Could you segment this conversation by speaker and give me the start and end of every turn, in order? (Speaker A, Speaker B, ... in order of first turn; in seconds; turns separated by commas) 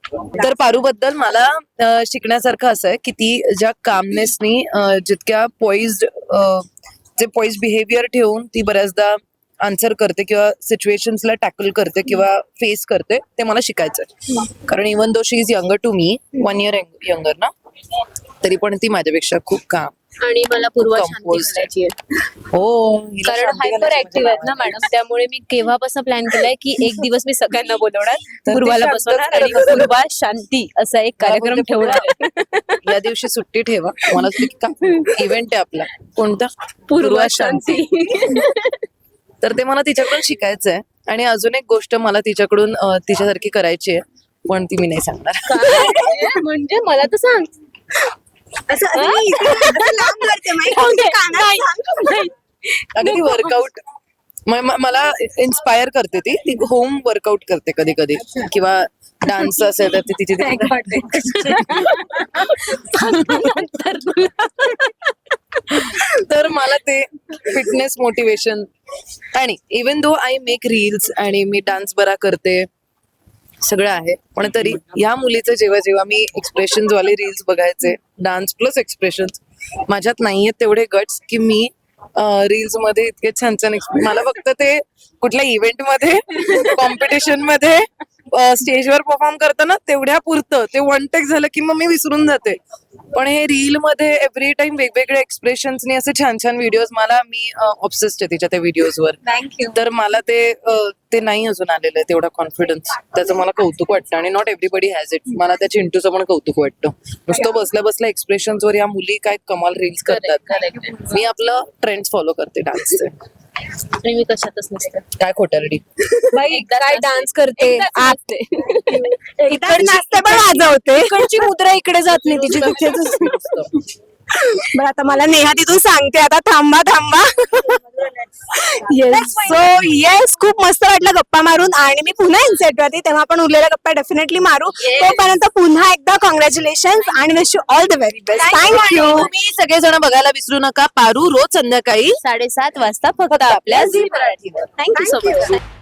Speaker A: 0.3-17.5, Speaker A: 18.4-19.9, Speaker B: 20.2-21.9, Speaker A: 20.8-21.7, Speaker A: 22.5-24.8, Speaker B: 23.2-32.8, Speaker A: 28.4-29.9, Speaker A: 31.2-32.1, Speaker A: 32.8-37.8, Speaker B: 34.8-35.2, Speaker B: 36.9-38.8, Speaker A: 39.4-45.9, Speaker B: 45.5-47.5, Speaker C: 45.7-46.2, Speaker C: 48.7-52.2, Speaker B: 48.9-53.5, Speaker A: 52.9-53.8, Speaker A: 54.5-61.9, Speaker D: 60.4-62.0, Speaker B: 61.5-64.9, Speaker A: 65.7-68.7, Speaker A: 69.3-72.7, Speaker A: 73.6-92.6, Speaker A: 93.1-99.2, Speaker D: 99.2-99.8, Speaker A: 99.7-113.1, Speaker B: 110.0-111.1, Speaker B: 113.8-115.0, Speaker A: 115.2-115.8, Speaker D: 116.3-118.4, Speaker B: 116.5-119.2, Speaker C: 118.9-121.4, Speaker D: 118.9-123.3, Speaker A: 122.2-123.8, Speaker C: 124.3-127.8, Speaker C: 128.5-139.3, Speaker D: 128.8-129.6, Speaker B: 134.8-135.3, Speaker A: 138.3-142.2, Speaker B: 142.2-145.6, Speaker A: 143.5-144.6, Speaker D: 144.8-145.1, Speaker C: 144.9-145.6